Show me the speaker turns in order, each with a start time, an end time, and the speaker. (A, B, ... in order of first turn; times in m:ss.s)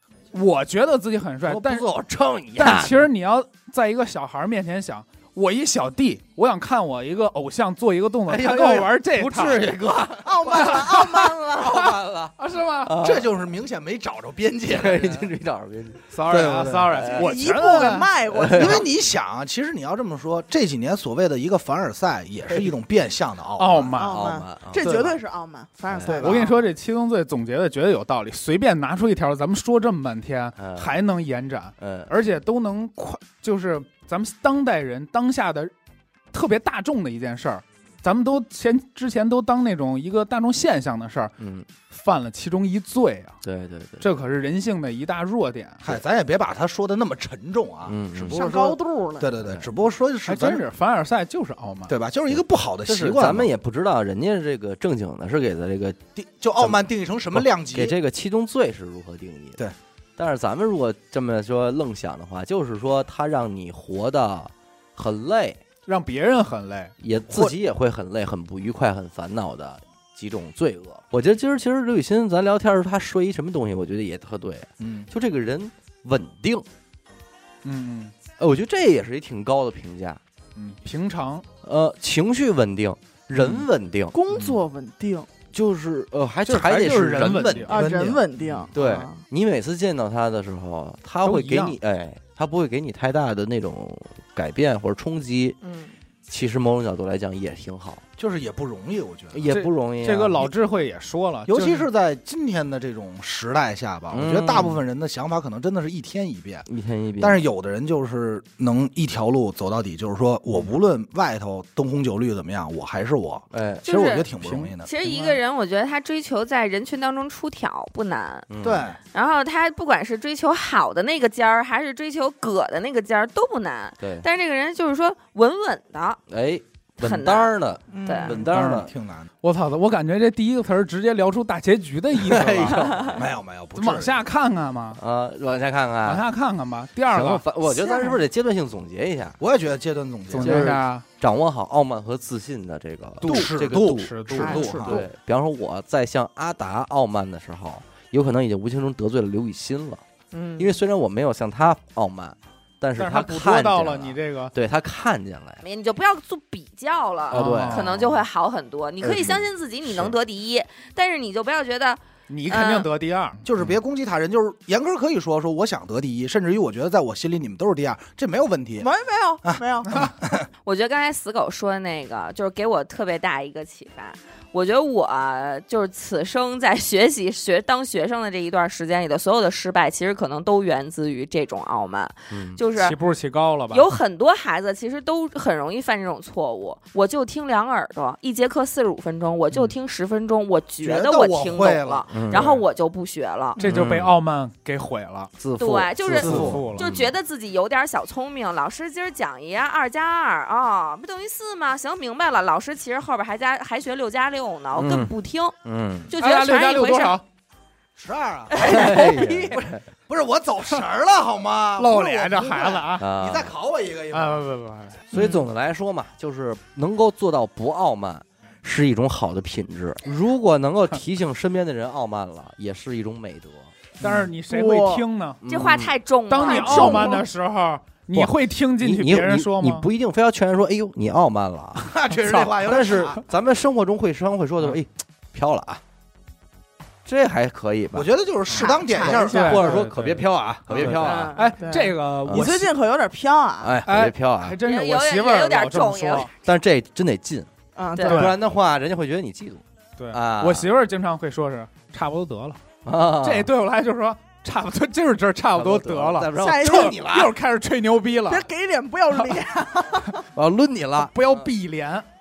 0:00.3-0:01.9 A
0:01.4-0:03.0 B
0:02.6-0:09.7 A
0:08.3-0:11.0 B
0:10.2-0:11.9 C
0:10.5-0:12.9 A
0:11.5-0:13.2 B
0:13.0-0:15.3 D
0:14.7-0:17.3 B
0:16.1-0:18.1 A
0:17.2-0:18.9 C
0:18.3-0:18.8 B
0:18.5-0:23.9 D
0:23.6-0:24.2 A
0:23.9-0:26.6 C
0:24.0-0:25.1 B
0:24.8-0:25.2 A
0:25.9-0:26.5 B
0:26.1-0:35.7 A
0:30.6-0:30.9 B
0:31.8-0:32.1 B
0:36.3-0:43.4 A
0:41.4-0:41.7 B
0:43.4-0:44.1 B
0:44.0-0:45.8 A
0:45.8-0:50.6 D
0:47.9-0:48.5 B
0:48.3-0:49.3 C
0:50.2-0:51.9 A
0:51.9-0:53.5 D
0:52.3-0:56.0 B
0:56.2-0:58.0 D
0:56.6-0:59.6 B
1:00.2-1:05.6 B
1:05.8-1:06.9 A
1:07.0-1:16.6 B
1:14.8-1:15.0 D
1:17.6-1:18.1 A
1:18.4-1:20.2 B
1:20.6-1:21.4 A
1:21.6-1:24.6 B
1:24.1-1:25.3 C
1:25.5-1:27.8 B
1:26.5-1:27.8 A
1:27.4-1:28.2 D
1:27.7-1:29.2 C
1:28.7-1:35.6 B
1:31.2-1:31.7 A
1:35.6-1:35.9 C
1:36.3-1:38.0 B
1:38.2-1:39.4 D
1:39.3-1:40.5 B
1:39.4-1:41.8 A
1:41.5-1:46.7 D
1:44.1-1:44.8 B
1:46.7-1:47.4 B
1:47.2-1:54.9 D
1:53.5-1:53.8 B
1:53.8-1:58.5 E
1:58.5-1:58.9 B
1:58.6-1:59.0 D
1:59.1-2:06.2 E
2:04.0-2:04.2 B
2:06.3-2:08.9 B
2:07.0-2:08.4 E
2:07.9-2:08.5 C
2:08.5-2:08.8 A
2:08.5-2:09.3 D
2:09.4-2:13.0 A
2:12.1-2:13.2 B
2:12.8-2:13.1 E
2:13.2-2:14.2 D
2:13.7-2:15.0 A
2:15.0-2:16.2 B
2:16.0-2:17.4 A
2:17.1-2:19.4 B
2:19.4-2:20.8 D
2:20.3-2:21.0 A
2:20.4-2:30.0 B
2:23.2-2:25.0 A
2:23.2-2:25.0 D
2:24.4-2:25.0 C
2:30.3-2:30.7 C
2:30.6-2:35.6 B
2:33.0-2:34.5 A
2:35.6-2:42.9 E
2:37.3-2:37.9 A
2:37.3-2:38.2 B
2:39.1-2:39.4 B
2:42.3-2:43.4 A
2:43.4-2:48.9 D
2:48.8-2:49.9 C
2:49.4-2:50.5 D
2:50.6-3:03.0 E
3:02.3-3:02.6 B
3:02.8-3:03.8 A
3:03.7-3:13.6 E
3:10.8-3:12.1 D
3:12.1-3:12.4 B
3:12.3-3:12.6 A
3:13.6-3:13.9 C
3:13.6-3:15.3 A
3:13.7-3:14.1 B
3:15.4-3:17.1 B
3:15.6-3:25.5 E
3:16.1-3:16.9 A
3:16.3-3:16.6 D
3:24.8-3:25.1 B
3:25.6-3:26.1 B
3:26.1-3:27.2 E
3:26.2-3:27.2 A
3:27.9-3:34.4 D
3:28.6-3:29.8 B
3:28.7-3:29.4 E
3:31.8-3:33.0 A
3:33.0-3:33.5 B
3:34.1-3:35.0 A
3:35.1-3:43.7 B
3:35.1-3:35.4 C
3:44.0-3:45.4 A
3:44.0-3:44.2 D
3:44.4-3:45.0 C
3:45.4-3:45.9 B
3:45.5-3:47.1 E
3:46.3-3:49.8 A
3:46.3-3:47.2 C
3:48.1-3:51.9 B
3:51.8-3:53.2 D
3:52.2-3:52.5 A
3:52.6-3:55.8 B
3:57.0-3:58.1 B
3:57.9-3:59.8 D
3:58.5-3:59.9 C
3:59.0-4:01.3 B
3:59.2-4:02.7 A
4:00.9-4:01.4 E
4:01.1-4:03.8 C
4:02.2-4:02.5 B
4:03.6-4:04.6 B
4:03.8-4:06.3 A
4:04.6-4:06.3 E
4:06.4-4:07.5 B
4:07.8-4:08.3 C
4:07.9-4:08.2 E
4:08.0-4:10.7 B
4:08.0-4:08.4 A
4:10.0-4:12.6 A
4:12.8-4:13.5 B
4:13.2-4:18.4 A
4:15.5-4:17.3 B
4:16.4-4:17.0 C
4:18.3-4:20.2 C
4:20.3-4:21.5 B
4:21.0-4:22.0 A